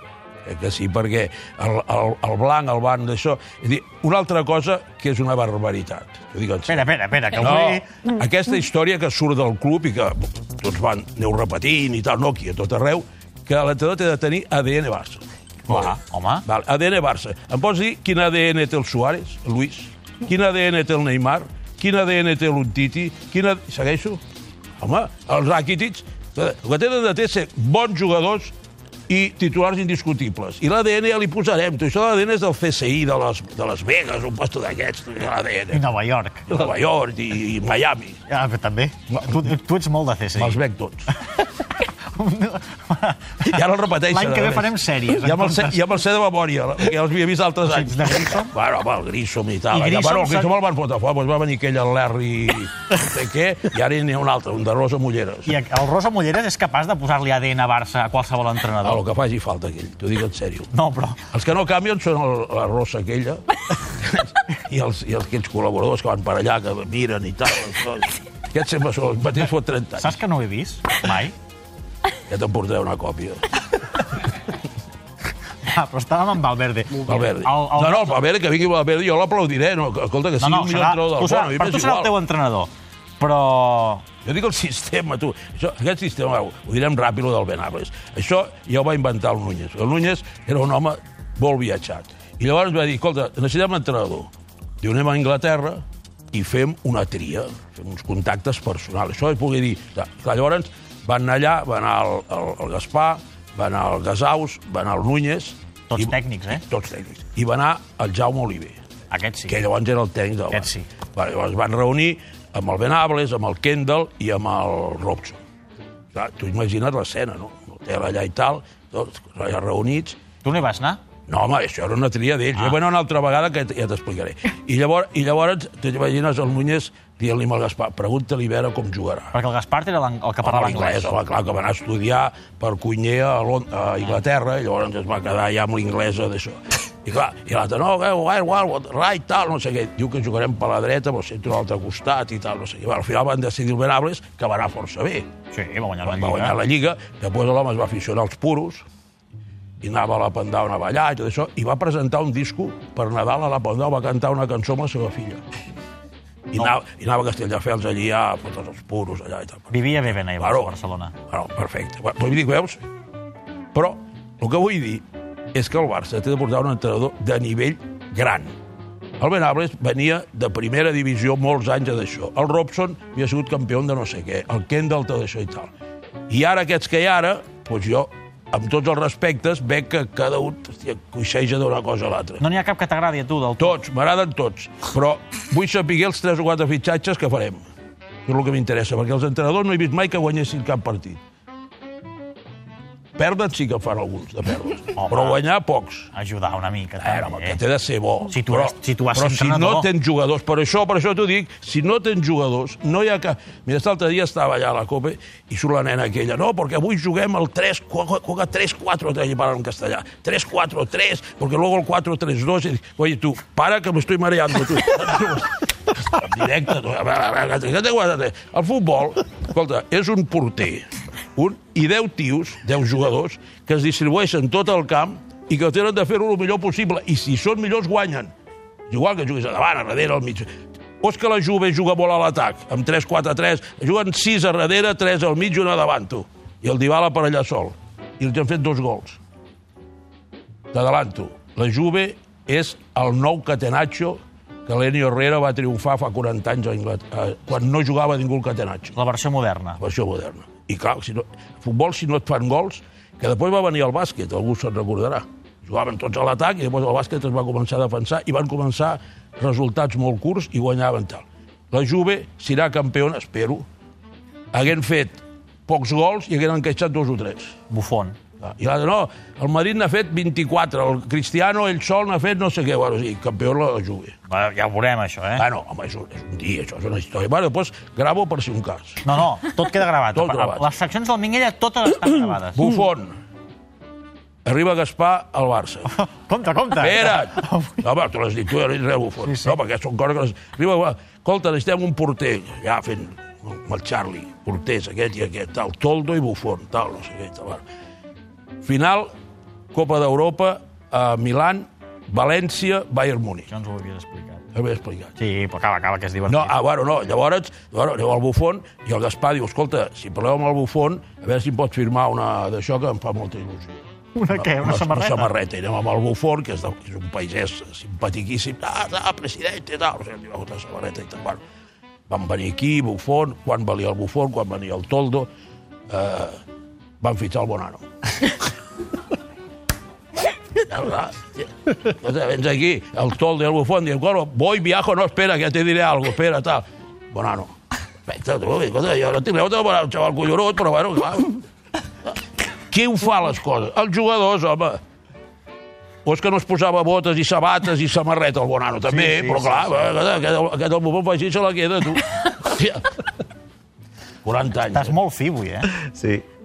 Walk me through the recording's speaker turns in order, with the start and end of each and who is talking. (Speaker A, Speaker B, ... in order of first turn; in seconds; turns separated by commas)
Speaker A: 0.4-6.8, Speaker B: 6.7-7.9, Speaker A: 7.3-24.2, Speaker B: 15.7-16.4, Speaker A: 24.8-28.5, Speaker A: 29.1-35.9, Speaker B: 35.7-36.5, Speaker A: 36.5-38.2, Speaker B: 38.3-40.6, Speaker A: 39.1-39.4, Speaker A: 40.4-41.1, Speaker B: 41.2-45.9, Speaker A: 43.4-55.6, Speaker B: 47.6-48.5, Speaker B: 49.7-50.5, Speaker B: 55.5-59.0, Speaker A: 58.8-60.7, Speaker B: 60.7-61.2, Speaker A: 61.3-70.2, Speaker B: 70.0-71.3, Speaker A: 72.3-73.5, Speaker B: 75.6-78.2, Speaker A: 77.0-82.1, Speaker B: 80.4-84.0, Speaker A: 84.2-108.8, Speaker B: 105.9-106.6, Speaker B: 109.1-109.6, Speaker A: 109.5-115.4, Speaker B: 110.5-110.9, Speaker A: 116.1-120.2, Speaker B: 120.4-121.0, Speaker A: 121.3-129.3, Speaker B: 122.5-122.8, Speaker B: 129.3-131.2, Speaker A: 130.4-145.3, Speaker B: 145.5-146.6, Speaker A: 146.0-148.8, Speaker A: 149.8-155.4, Speaker A: 156.5-159.7, Speaker B: 159.7-161.1, Speaker A: 160.4-160.7, Speaker A: 161.3-162.8, Speaker A: 163.7-168.5, Speaker A: 169.2-175.7, Speaker A: 176.3-182.4, Speaker B: 182.4-183.8, Speaker A: 183.6-187.6, Speaker A: 188.2-191.2, Speaker A: 193.2-196.1, Speaker B: 194.9-195.4, Speaker B: 196.1-197.6, Speaker A: 197.0-228.3, Speaker B: 198.3-199.9, Speaker A: 228.9-239.2, Speaker A: 240.7-248.9, Speaker B: 248.9-249.8, Speaker A: 249.8-263.6, Speaker A: 264.5-267.6, Speaker B: 267.7-268.2, Speaker A: 268.4-274.1, Speaker B: 274.3-275.4, Speaker A: 275.4-279.0, Speaker B: 279.0-282.7, Speaker A: 280.1-280.7, Speaker A: 282.5-283.1, Speaker A: 284.4-285.9, Speaker B: 285.9-287.9, Speaker A: 286.8-297.6, Speaker B: 289.2-289.6, Speaker A: 298.6-299.1, Speaker A: 299.7-303.5, Speaker B: 303.5-304.4, Speaker A: 304.5-305.1, Speaker B: 305.2-306.5, Speaker A: 306.3-321.4, Speaker B: 314.1-315.3, Speaker A: 322.1-325.3, Speaker A: 325.9-326.4, Speaker A: 327.0-328.4, Speaker A: 330.5-337.5, Speaker A: 338.1-341.4, Speaker A: 342.7-344.8, Speaker A: 346.0-353.0, Speaker B: 348.9-349.8, Speaker A: 354.2-355.0, Speaker B: 354.6-355.9